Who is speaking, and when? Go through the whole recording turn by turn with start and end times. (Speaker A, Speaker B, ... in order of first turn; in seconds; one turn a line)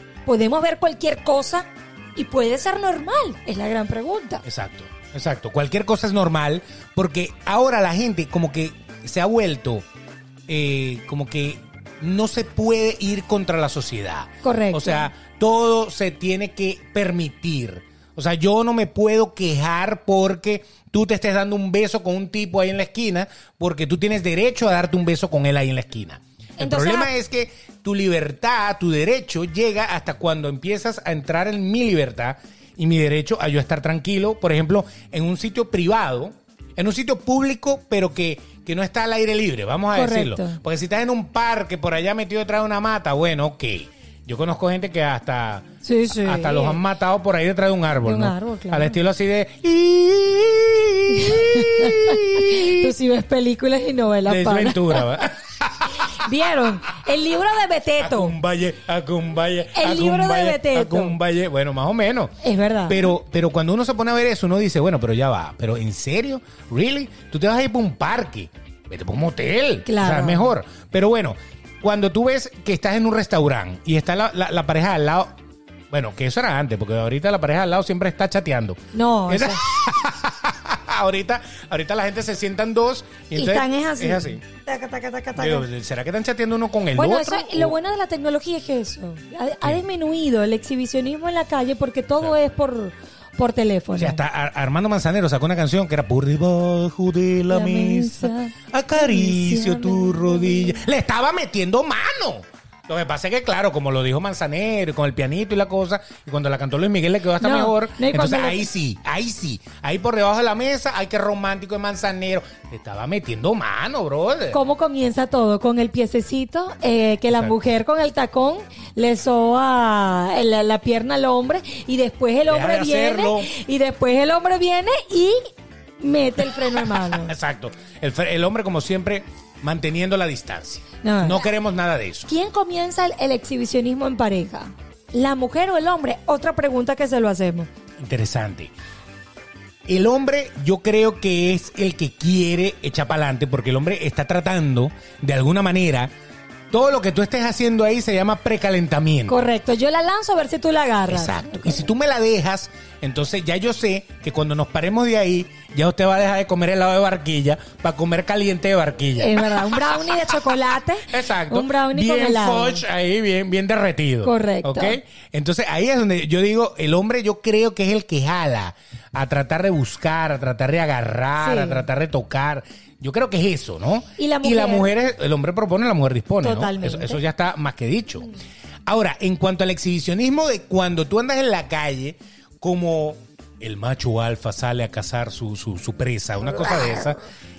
Speaker A: 0.2-4.4
Speaker B: 4.4-9.8
Speaker B: 10.5-45.7
Speaker A: 14.4-15.1
Speaker A: 26.6-27.1
Speaker A: 39.9-40.6
Speaker A: 45.8-46.8
Speaker B: 46.2-52.9
Speaker A: 48.0-49.0
Speaker A: 51.1-55.2
Speaker B: 54.3-56.1
Speaker A: 56.0-58.4
Speaker B: 58.0-62.3
Speaker A: 59.7-61.2
Speaker A: 62.4-63.1
Speaker B: 62.9-75.3
Speaker A: 69.8-70.5
Speaker B: 75.9-84.4
Speaker A: 78.9-79.6
Speaker A: 83.3-85.7
Speaker B: 85.3-87.7
Speaker A: 86.9-94.2
Speaker B: 94.0-114.6
Speaker A: 97.5-100.8
Speaker A: 107.4-108.7
Speaker A: 114.5-125.4
Speaker B: 122.5-123.5
Speaker A: 126.0-127.3
Speaker B: 127.0-132.3
Speaker A: 131.0-131.5
Speaker A: 132.3-137.7
Speaker B: 138.0-138.7
Speaker B: 139.9-146.1
Speaker B: 146.7-149.4
Speaker A: 149.3-151.8
Speaker B: 151.1-159.8
Speaker A: 159.2-162.8
Speaker B: 161.1-178.3
Speaker A: 164.2-165.0
Speaker A: 171.4-171.8
Speaker A: 174.2-174.9
Speaker A: 176.4-177.2
Speaker B: 178.9-187.2